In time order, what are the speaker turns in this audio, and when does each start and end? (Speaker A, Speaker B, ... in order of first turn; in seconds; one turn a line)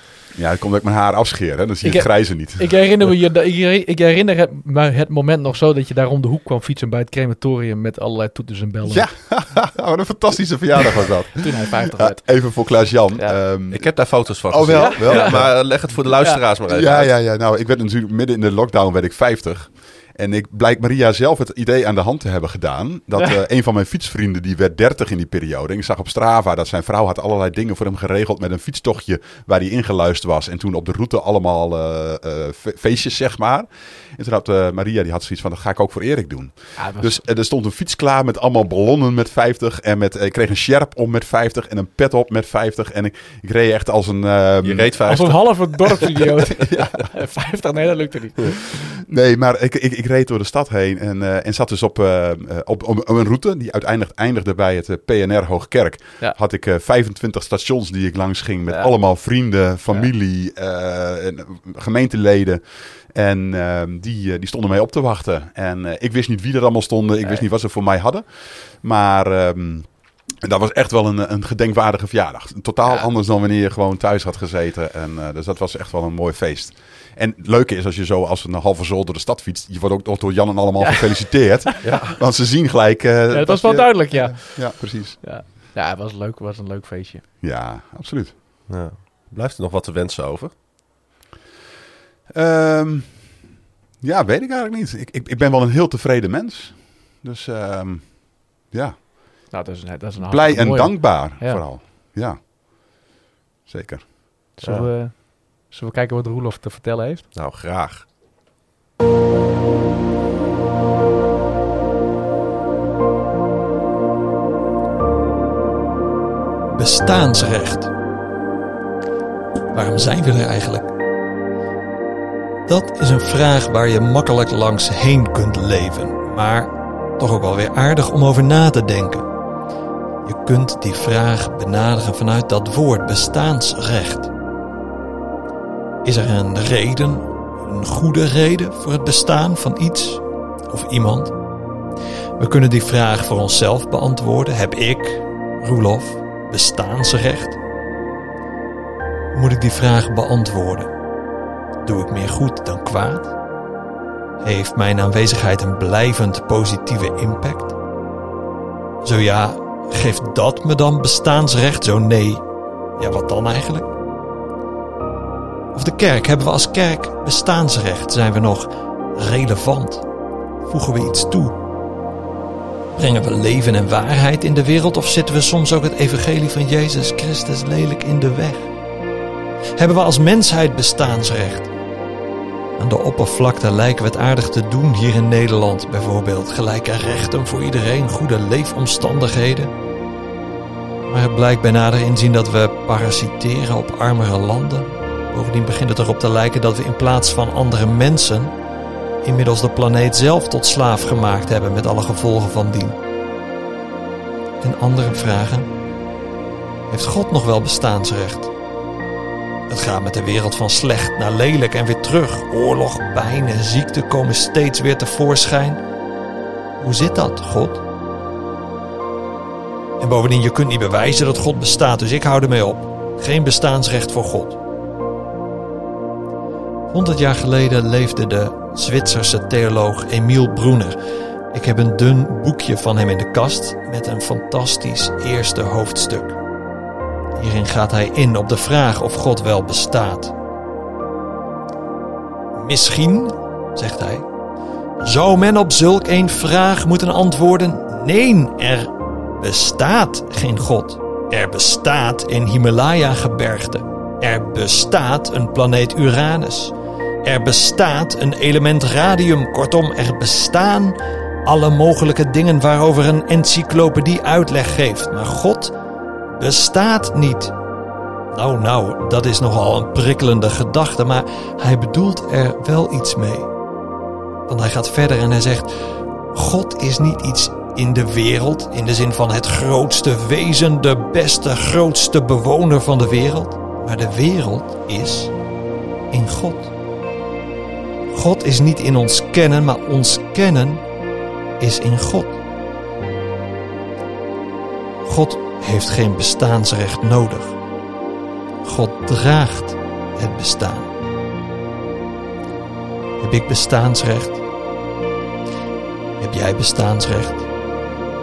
Speaker A: 0.3-3.1
Speaker B: 1.8-9.1
Speaker A: 8.8-15.6
Speaker B: 11.3-13.4
Speaker C: 13.7-17.1
Speaker B: 14.7-16.4
Speaker A: 16.7-45.0
Speaker B: 36.8-37.2
Speaker C: 44.6-46.1
Speaker B: 45.1-49.0
Speaker A: 46.5-47.0
Speaker A: 48.7-85.2
Speaker B: 80.8-81.1
Speaker B: 81.7-82.1
Speaker C: 81.8-82.2
Speaker B: 83.3-87.3
Speaker A: 87.4-88.4
Speaker C: 88.7-90.5
Speaker A: 92.3-93.4
Speaker A: 94.0-99.5
Speaker B: 99.5-101.6
Speaker A: 100.2-102.9
Speaker A: 103.7-104.9
Speaker B: 104.6-107.3
Speaker C: 107.3-108.1
Speaker D: 116.7-117.9
Speaker D: 119.7-120.9
Speaker D: 122.7-129.3
Speaker D: 130.2-134.3
Speaker D: 136.0-141.3
Speaker D: 142.4-147.6
Speaker D: 149.3-150.9
Speaker D: 151.8-153.3
Speaker D: 154.4-157.7
Speaker D: 159.0-162.4
Speaker D: 163.0-163.9
Speaker D: 165.7-170.1
Speaker D: 170.6-171.6
Speaker D: 172.9-178.7
Speaker D: 179.8-181.7
Speaker D: 182.8-189.7
Speaker D: 191.1-198.5
Speaker D: 199.2-203.0
Speaker D: 204.6-205.7
Speaker D: 206.9-208.5
Speaker D: 209.7-215.8
Speaker D: 216.8-217.8
Speaker D: 220.0-224.6
Speaker D: 226.9-231.0
Speaker D: 231.5-236.4
Speaker D: 237.3-240.3
Speaker D: 242.6-244.3
Speaker D: 245.0-265.7
Speaker D: 266.4-267.5
Speaker D: 268.3-273.5
Speaker D: 274.5-275.7
Speaker D: 276.3-285.3
Speaker D: 286.1-286.7
Speaker D: 288.1-290.8
Speaker D: 291.6-292.4
Speaker D: 295.0-297.6
Speaker D: 298.6-300.9
Speaker D: 303.2-304.4
Speaker D: 306.2-307.5